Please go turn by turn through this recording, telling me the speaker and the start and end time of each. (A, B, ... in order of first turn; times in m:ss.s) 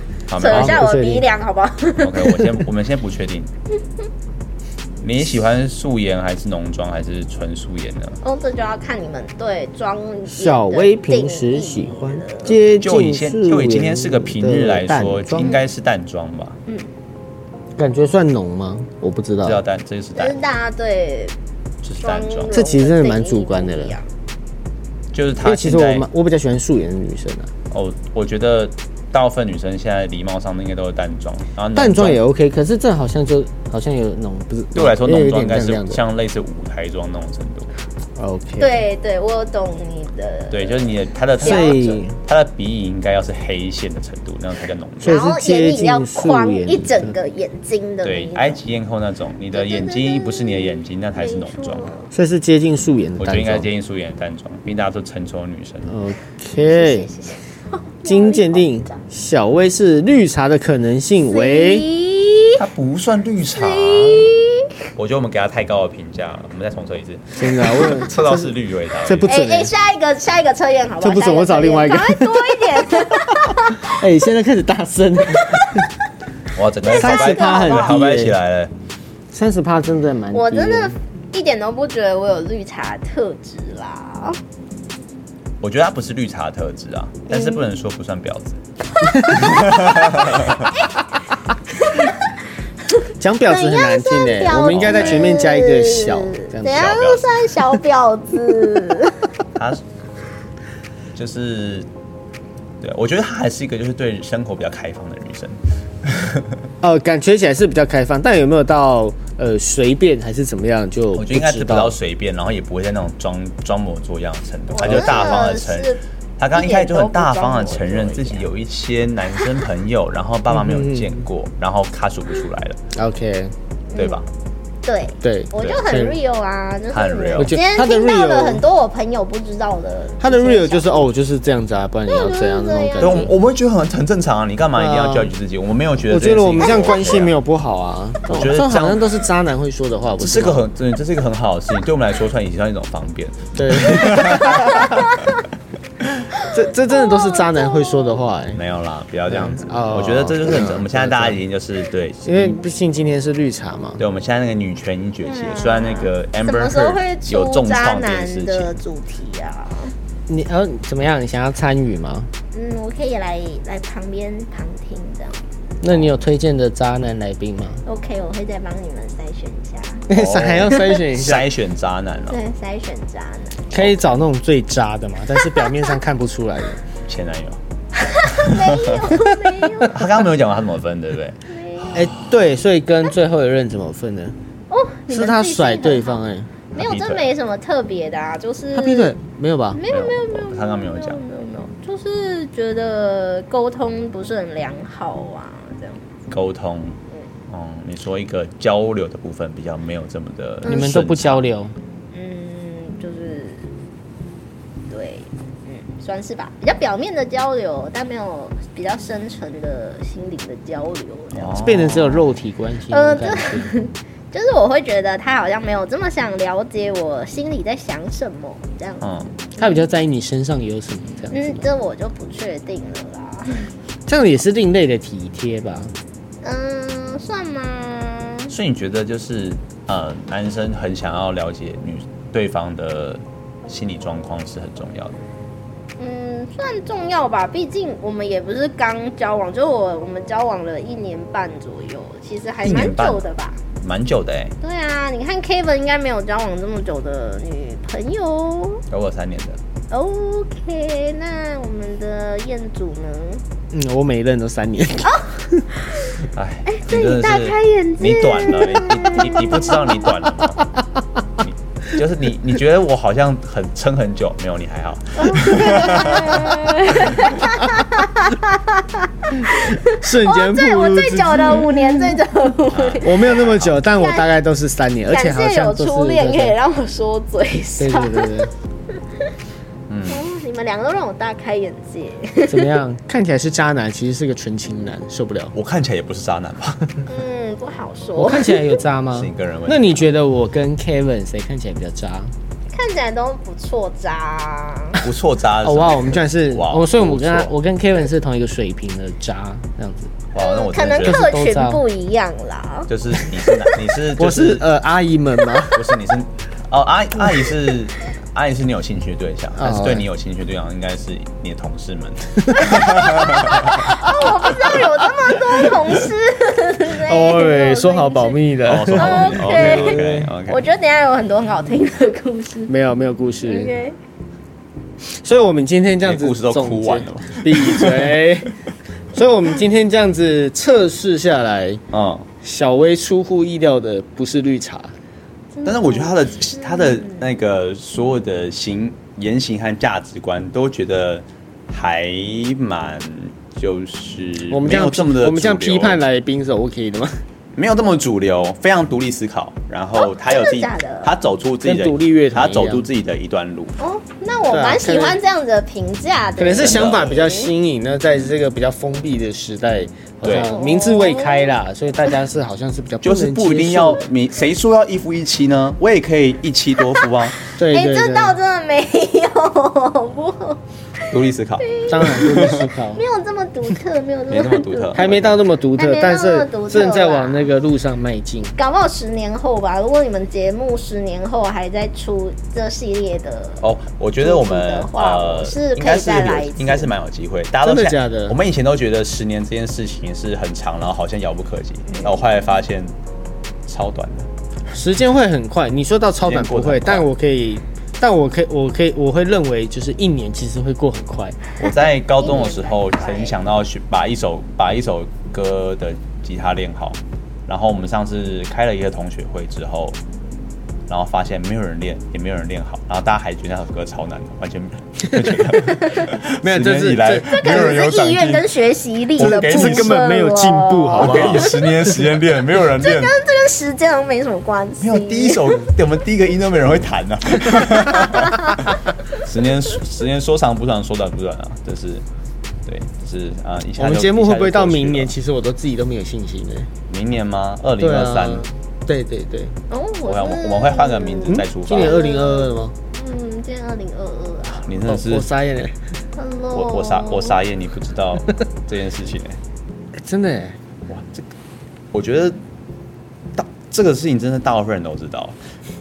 0:00.3-0:00.9 A
0:00.4-0:02.5 B
0:00.4-0:01.3 C
0:02.0-0:03.5 A
0:05.0-0:08.2 A
0:08.2-0:12.6 B
0:10.3-0:15.6 C
0:12.8-0:16.6 A
0:15.4-0:15.6 B
0:17.8-0:19.6 C
0:19.4-0:20.4 A
0:20.2-0:21.3 B
0:21.8-0:22.6 A
0:22.0-0:24.0 B
0:22.5-0:24.0 C
0:25.1-0:26.1 A
0:25.4-0:27.5 C
0:27.7-0:32.2 A
0:31.8-0:36.0 C
0:34.7-0:37.7 A
0:38.2-0:38.8 C
0:38.6-0:42.0 B
0:40.5-0:45.2 A
0:41.4-0:42.2 C
0:45.0-0:47.2 C
0:45.0-0:48.6 B
0:48.0-0:51.9 A
0:49.5-0:52.1 B
0:52.1-0:53.7 C
0:53.2-0:55.9 A
0:55.9-0:57.1 C
0:56.6-0:58.9 B
0:58.0-1:01.9 C
1:01.3-1:02.6 B
1:02.6-1:04.3 A
1:03.5-1:04.7 B
1:04.9-1:09.3 A
1:07.4-1:09.7 C
1:09.3-1:13.9 B
1:11.0-1:15.9 C
1:15.4-1:15.9 B
1:16.5-1:18.7 A
1:16.9-1:18.0 B
1:16.9-1:18.4 C
1:19.3-1:21.0 C
1:20.3-1:24.4 B
1:25.6-1:28.6 A
1:27.3-1:27.6 B
1:29.0-1:30.9 B
1:29.1-1:29.6 C
1:29.3-1:30.7 A
1:31.8-1:32.2 B
1:32.9-1:39.3 B
1:33.2-1:37.1 C
1:34.7-1:35.4 A
1:36.6-1:37.3 A
1:39.6-1:39.8 A
1:41.1-1:41.9 A
1:42.8-1:46.6 A
1:46.8-1:51.9 C
1:51.1-2:02.8 A
1:54.7-1:56.0 B
1:56.5-1:58.4 B
2:00.5-2:01.2 C
2:02.9-2:03.5 C
2:03.9-2:04.2 B
2:03.9-2:04.3 A
2:04.8-2:11.1 B
2:05.2-2:06.2 C
2:05.6-2:05.8 A
2:06.9-2:07.6 A
2:07.4-2:08.6 C
2:10.2-2:13.3 C
2:12.1-2:13.3 B
2:13.0-2:17.4 A
2:14.8-2:15.3 C
2:16.1-2:20.6 C
2:18.3-2:19.0 A
2:20.2-2:25.0 A
2:23.6-2:25.1 C
2:26.1-2:28.6 C
2:26.9-2:28.2 B
2:28.5-2:32.6 A
2:29.3-2:31.4 C
2:32.2-2:34.0 C
2:34.0-2:38.8 A
2:35.2-2:39.9 B
2:40.3-2:42.3 C
2:42.5-2:45.4 B
2:45.8-2:47.8 C
2:47.9-2:50.0 B
2:50.1-2:51.5 C
2:50.1-2:52.4 A
2:50.7-2:51.0 B
2:52.3-2:53.7 B
2:53.7-2:56.8 C
2:57.1-2:57.6 A
2:58.0-3:00.0 B
2:58.3-2:59.0 A
2:59.3-2:59.9 C
2:59.8-3:02.1 A
3:01.5-3:02.1 B
3:01.9-3:04.4 C
3:04.7-3:06.2 B
3:05.1-3:06.5 C
3:06.7-3:07.3 A
3:06.8-3:09.1 B
3:08.7-3:09.8 C
3:09.7-3:16.1 B
3:09.9-3:11.2 A
3:16.3-3:17.0 A
3:17.5-3:21.4 A
3:20.6-3:21.0 B
3:20.6-3:21.7 C
3:22.1-3:23.7 B
3:24.9-3:31.6 B
3:31.3-3:32.3 A
3:31.6-3:33.7 C
3:32.9-3:39.0 B
3:39.0-3:39.3 A
3:39.6-3:39.8 B
3:39.6-3:41.7 C
3:41.3-3:43.7 B
3:44.1-3:45.9 C
3:46.4-3:48.5 B
3:48.5-3:55.2 A
3:56.0-4:03.6 B
4:02.6-4:03.2 A
4:03.8-4:04.6 A
4:04.6-4:08.8 B
4:08.9-4:09.6 A
4:09.9-4:13.4 B
4:13.7-4:15.6 C
4:15.0-4:16.2 B
4:16.3-4:20.7 A
4:16.7-4:20.3 B
4:21.4-4:27.4 A
4:25.2-4:34.4 B
4:29.3-4:32.2 C
4:32.7-4:33.7 A
4:33.0-4:36.6 C
4:35.1-4:38.5 B
4:37.8-4:38.5 C
4:39.9-4:40.2 A
4:40.1-4:42.7 B
4:42.4-4:45.5 C
4:45.5-4:47.0 A
4:47.0-4:48.8 B
4:48.2-4:52.3 C
4:49.1-4:50.1 A
4:52.7-4:55.0 B
4:55.0-4:57.5 A
4:55.6-5:00.1 C
5:00.3-5:01.3 A
5:00.4-5:02.9 B
5:01.0-5:01.8 C
5:02.9-5:04.6 A
5:04.2-5:05.8 C
5:05.7-5:14.1 A
5:09.6-5:10.1 C
5:12.6-5:22.7 B
5:16.9-5:20.3 C
5:18.6-5:20.6 A
5:22.7-5:23.7 C
5:23.4-5:24.0 B
5:25.0-5:28.6 C
5:26.0-5:28.3 A
5:29.1-5:31.8 C
5:31.9-5:32.3 A
5:32.4-5:34.9 C
5:35.5-5:37.2 B
5:35.6-5:46.0 A
5:44.5-5:47.2 C
5:47.6-5:53.8 A
5:49.9-5:51.1 B
5:51.6-5:52.9 C
5:53.8-5:57.5 B
5:54.5-5:55.2 C
5:56.4-6:04.0 C
5:56.6-5:57.1 A
6:00.2-6:00.5 A
6:00.3-6:01.6 B
6:03.0-6:07.4 A
6:07.6-6:08.4 C
6:07.6-6:11.0 B
6:11.1-6:12.6 A
6:11.6-6:15.0 B
6:11.9-6:13.0 C
6:14.3-6:15.4 A
6:14.9-6:18.6 C
6:15.8-6:17.5 B
6:18.6-6:23.6 B
6:23.6-6:32.9 A
6:24.2-6:26.9 B
6:27.6-6:28.4 C
6:31.9-6:32.2 B
6:33.7-6:34.3 A
6:34.7-6:41.4 C
6:36.2-6:37.1 A
6:41.6-6:50.0 A
6:41.6-6:43.4 B
6:50.9-6:58.5 A
6:55.2-6:55.6 C
6:55.6-6:56.0 B
6:56.3-6:57.8 C
6:57.2-7:01.7 B
6:59.2-7:00.0 A
6:59.2-7:02.0 C
7:01.0-7:03.1 A
7:02.6-7:05.7 B
7:04.8-7:12.0 A
7:07.9-7:08.6 B
7:12.6-7:15.1 A
7:13.8-7:16.7 C
7:16.9-7:18.5 A
7:17.8-7:19.6 C
7:19.7-7:24.7 B
7:20.0-7:22.2 A
7:21.3-7:22.7 C
7:24.6-7:25.3 A
7:24.8-7:25.7 C
7:26.1-7:27.4 B
7:26.5-7:29.4 A
7:30.0-7:30.6 C
7:30.9-7:31.3 A
7:31.9-7:32.4 A
7:33.3-7:35.4 A